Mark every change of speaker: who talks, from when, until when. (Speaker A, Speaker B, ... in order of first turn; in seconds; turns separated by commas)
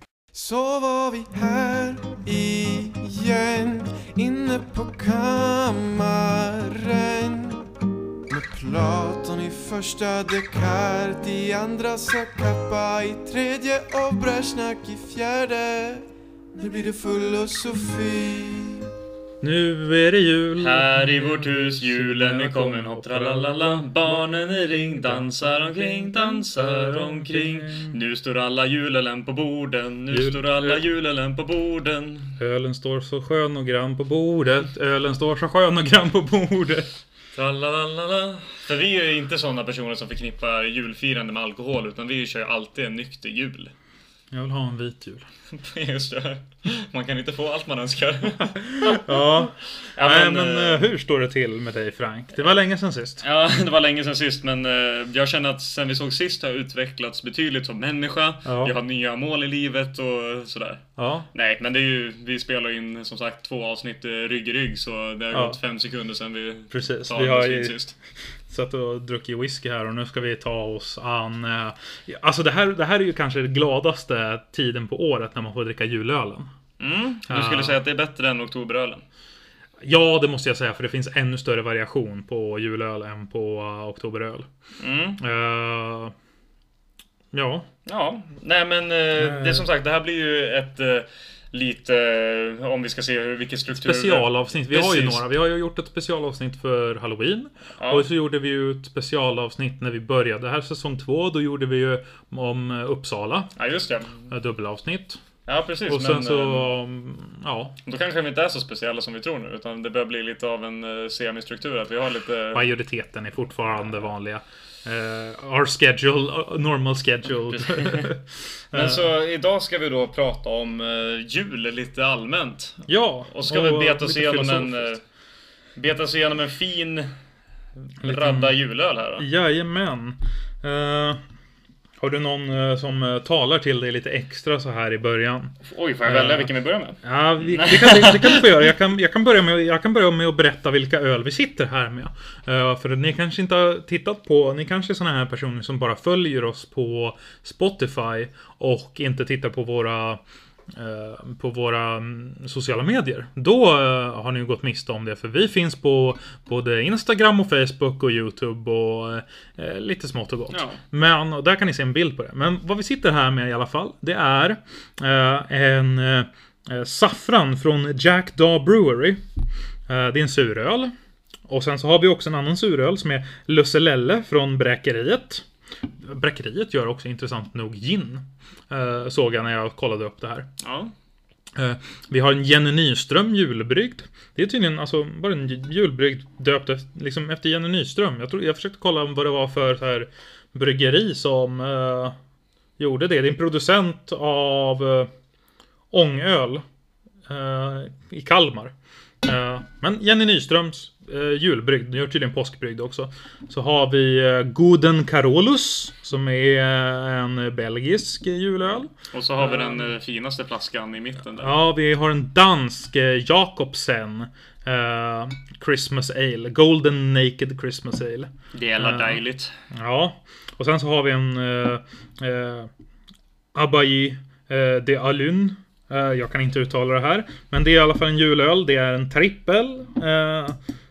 Speaker A: 0.3-7.7, Speaker A: 8.3-18.9, Speaker B: 19.4-28.0, Speaker C: 20.6-32.4, Speaker B: 30.1-30.8, Speaker B: 32.4-36.9, Speaker C: 37.3-43.7, Speaker B: 44.3-45.3, Speaker C: 45.5-49.2, Speaker B: 48.5-53.2, Speaker C: 49.8-50.8, Speaker C: 53.2-68.0, Speaker B: 58.5-58.8, Speaker B: 61.0-61.3, Speaker B: 65.3-65.6, Speaker B: 66.7-67.8, Speaker B: 68.5-76.5, Speaker C: 76.8-79.0, Speaker B: 77.3-77.8, Speaker B: 79.8-84.5, Speaker C: 84.8-85.2, Speaker B: 85.2-86.1, Speaker B: 87.3-87.7, Speaker C: 87.9-95.2, Speaker B: 89.2-89.6, Speaker B: 93.7-103.5, Speaker C: 97.8-98.0, Speaker C: 103.6-104.3, Speaker B: 104.3-105.2, Speaker C: 105.5-106.7, Speaker B: 105.9-107.8, Speaker C: 107.9-112.6, Speaker B: 112.5-119.1, Speaker C: 117.5-118.1, Speaker C: 118.7-125.0, Speaker B: 122.9-124.9, Speaker C: 125.8-127.1, Speaker B: 128.0-128.6, Speaker C: 128.0-129.2, Speaker B: 129.2-131.2, Speaker B: 132.0-135.5, Speaker C: 135.6-138.4, Speaker B: 136.1-136.5, Speaker B: 137.0-150.2, Speaker B: 150.7-169.2, Speaker C: 160.5-160.8, Speaker B: 169.9-170.9, Speaker B: 171.5-175.5, Speaker B: 176.0-180.5, Speaker C: 180.6-180.9, Speaker B: 181.6-192.2, Speaker B: 192.8-195.1, Speaker B: 195.9-196.6, Speaker B: 197.3-209.9, Speaker C: 209.1-211.5, Speaker B: 211.4-219.2, Speaker C: 218.5-219.6, Speaker B: 219.7-222.7, Speaker B: 223.6-230.6